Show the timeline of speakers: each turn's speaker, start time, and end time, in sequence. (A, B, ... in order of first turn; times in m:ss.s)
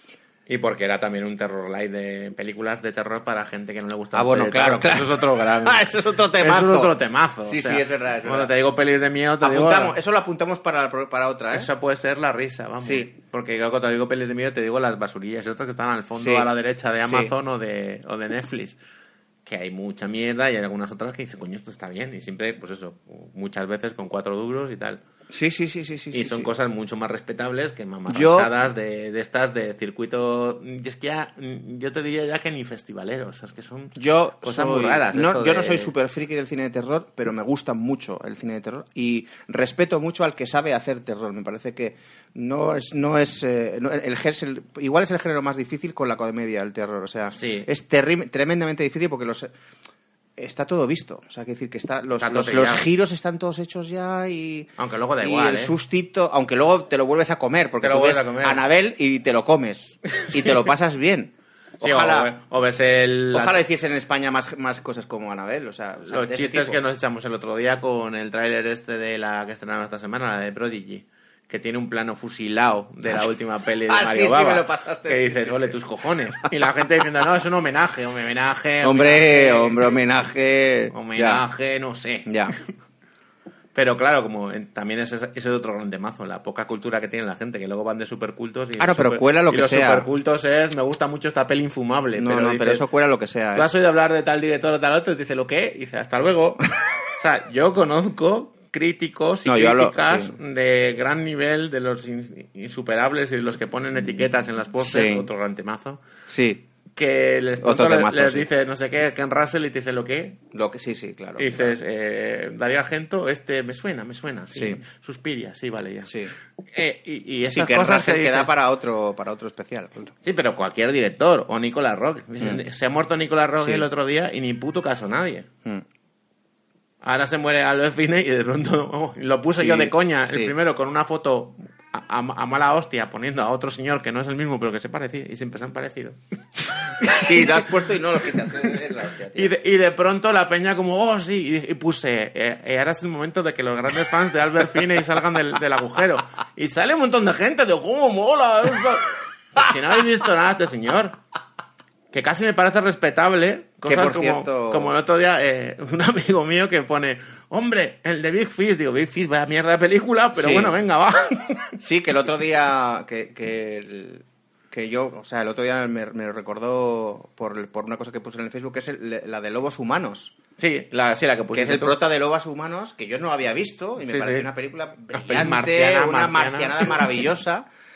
0:00.5-0:10.0 A
0:04.1-0:06.9 B
0:07.4-0:08.5 B
0:09.4-0:11.7 B
0:11.5-0:18.8 A
0:12.8-0:13.1 B
0:16.2-0:16.5 B
0:17.0-0:17.3 B
0:19.4-0:25.0 A
0:25.3-0:26.5 B
0:26.1-0:35.9 A
0:28.1-0:28.5 B
0:34.0-0:49.5 B
0:47.3-0:47.7 A
0:50.4-1:02.3 B
0:52.2-0:52.8 A
0:54.8-0:55.7 A
0:57.8-0:58.6 A
1:00.2-1:00.6 A
1:01.8-1:03.6 A
1:03.3-1:06.8 B
1:06.1-1:19.8 A
1:13.9-1:16.5 B
1:18.8-1:21.4 B
1:20.9-1:22.7 A
1:22.2-1:22.5 B
1:23.7-1:32.8 A
1:28.8-1:30.0 B
1:32.2-1:33.7 B
1:33.5-1:46.0 A
1:39.4-1:40.4 B
1:44.8-1:45.3 B
1:46.3-1:46.6 B
1:47.0-1:50.4 A
1:47.6-1:48.5 B
1:50.5-1:51.8 B
1:51.4-1:56.2 A
1:54.5-1:54.8 B
1:56.1-1:56.3 B
1:56.7-1:58.5 A
1:57.5-2:00.1 B
2:00.2-2:05.5 A
2:03.6-2:03.8 B
2:07.0-2:16.2 A
2:09.6-2:10.5 B
2:16.8-2:17.6 A
2:17.0-2:19.5 B
2:19.3-2:31.2 A
2:32.1-2:41.8 A
2:33.8-2:34.9 B
2:40.4-2:40.7 B
2:41.8-2:50.3 B
2:50.6-2:52.0 A
2:51.5-2:57.7 B
2:54.0-2:54.5 A
2:55.1-2:57.2 A